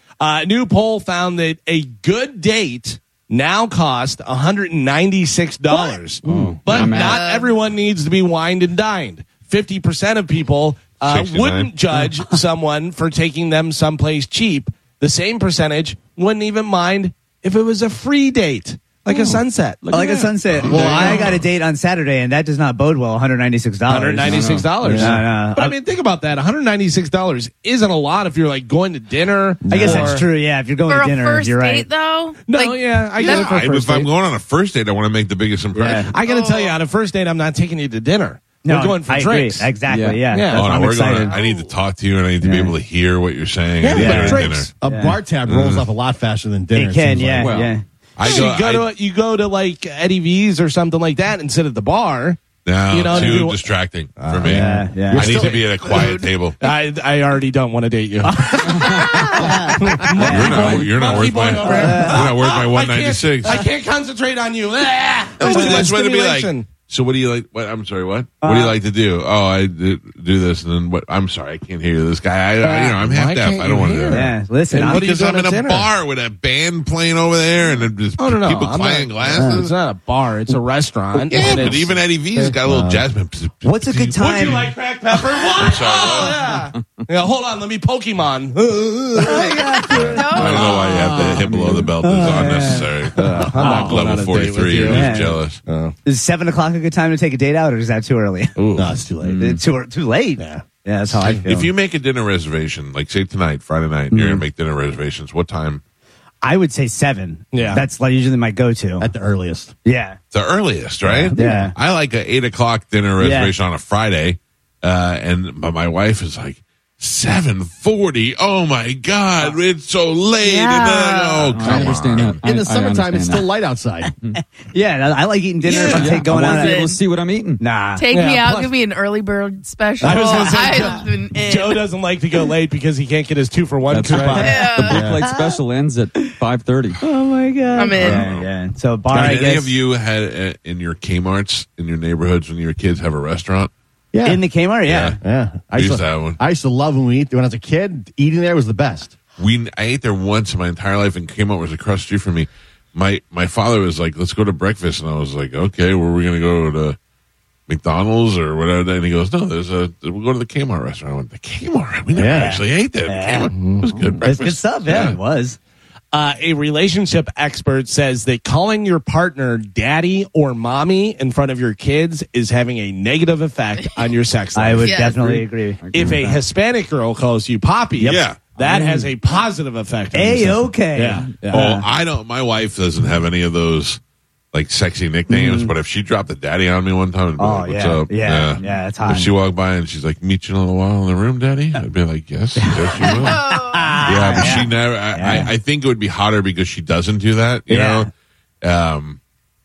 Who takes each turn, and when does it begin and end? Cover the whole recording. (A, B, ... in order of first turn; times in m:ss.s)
0:00.2-0:21.3 A
0:06.2-0:07.1 B
0:06.3-0:07.1 C
0:06.8-0:07.5 D
0:11.0-0:11.7 E
0:19.1-0:20.9 B
0:19.9-0:25.7 F
0:20.6-0:21.4 E
0:20.7-0:21.2 C
0:23.9-0:30.2 A
0:24.2-0:24.7 B
0:24.8-0:25.2 C
0:29.6-0:30.2 C
0:29.7-0:31.9 F
0:30.9-0:33.6 D
0:32.5-0:34.1 A
0:33.2-0:36.1 E
0:35.8-0:36.1 F
0:36.1-0:39.7 A
0:36.2-0:36.8 D
0:38.6-0:41.3 F
0:39.9-0:40.3 B
0:40.3-0:40.7 A
0:40.5-0:44.7 E
0:41.3-0:41.7 D
0:42.4-0:42.7 F
0:43.8-0:44.6 A
0:43.9-0:47.7 C
0:44.0-0:45.2 F
0:45.5-0:45.9 E
0:46.7-0:47.8 F
0:47.2-0:47.7 B
0:48.2-0:48.9 E
0:48.2-0:56.0 A
0:52.6-0:56.6 E
0:54.4-0:55.6 C
0:54.5-0:55.4 F
0:55.8-0:56.7 D
0:56.6-0:59.0 A
0:58.3-0:59.8 F
0:59.4-0:59.7 C
0:59.8-1:06.7 A
1:00.2-1:01.2 B
1:00.2-1:03.6 E
1:01.8-1:02.2 F
1:05.4-1:19.8 E
1:08.4-1:08.8 F
1:12.7-1:15.9 A
1:14.1-1:15.0 F
1:18.2-1:21.8 A
1:21.2-1:21.8 B
1:21.3-1:24.7 E
1:22.4-1:23.0 C
1:23.6-1:24.7 F
1:24.2-1:30.3 A
1:25.6-1:26.4 E
1:29.2-1:31.4 F
1:30.0-1:31.1 D
1:30.3-1:35.6 E
1:31.0-1:31.8 B
1:32.0-1:32.9 F
1:33.2-1:36.0 A
1:33.3-1:34.3 C
1:33.6-1:33.9 F
1:34.9-1:35.4 F
1:36.0-1:38.6 F
1:38.6-1:38.9 A
1:38.8-1:39.6 C
1:39.2-1:39.6 B
1:39.4-1:41.7 F
1:41.2-1:45.8 E
1:44.1-1:44.4 F
1:46.4-1:49.1 F
1:47.5-1:47.8 A
1:49.0-1:49.7 C
1:49.8-1:50.2 F
1:50.3-2:02.4 E
1:51.1-1:51.3 C
1:51.3-1:51.7 F
1:53.2-1:53.5 F
2:00.4-2:01.6 F
2:01.5-2:03.6 B
2:01.6-2:04.1 C
2:04.4-2:06.8 F
2:05.7-2:06.1 A
2:05.7-2:07.0 D
2:05.8-2:07.6 B
2:07.6-2:08.7 F
2:08.0-2:11.8 D
2:08.1-2:08.5 A
2:10.0-2:11.0 C
2:10.0-2:10.9 A
2:10.0-2:11.0 F
2:11.5-2:14.7 A
2:13.9-2:17.0 B
2:14.2-2:14.6 F
2:14.4-2:15.2 D
2:14.8-2:15.2 C
2:15.2-2:15.6 F
2:17.0-2:19.8 F
2:17.8-2:18.3 D
2:18.0-2:18.5 E
2:19.1-2:23.7 E
2:24.1-2:24.4 C
2:24.2-2:25.2 F
2:24.9-2:25.2 E
2:25.2-2:29.2 C
2:25.7-2:26.4 E
2:29.4-2:37.0 E
2:37.7-2:45.2 E
2:42.1-2:42.6 C
2:42.3-2:43.5 F
2:43.6-2:43.8 A
2:43.9-2:44.2 B
2:44.2-2:45.6 F
2:46.1-2:55.4 A
2:53.8-2:54.1 D
2:54.6-2:56.1 F
2:54.8-2:55.3 D
2:55.8-2:56.4 B
2:55.9-3:01.6 A
2:58.0-2:58.5 E
2:58.6-2:59.1 F
3:00.1-3:01.9 F
3:01.5-3:04.0 E
3:04.5-3:13.4 E
3:05.3-3:05.7 F
3:07.4-3:09.3 F
3:12.6-3:15.5 F
3:13.0-3:14.6 D
3:14.0-3:18.1 E
3:17.7-3:18.1 F
3:18.6-3:19.2 E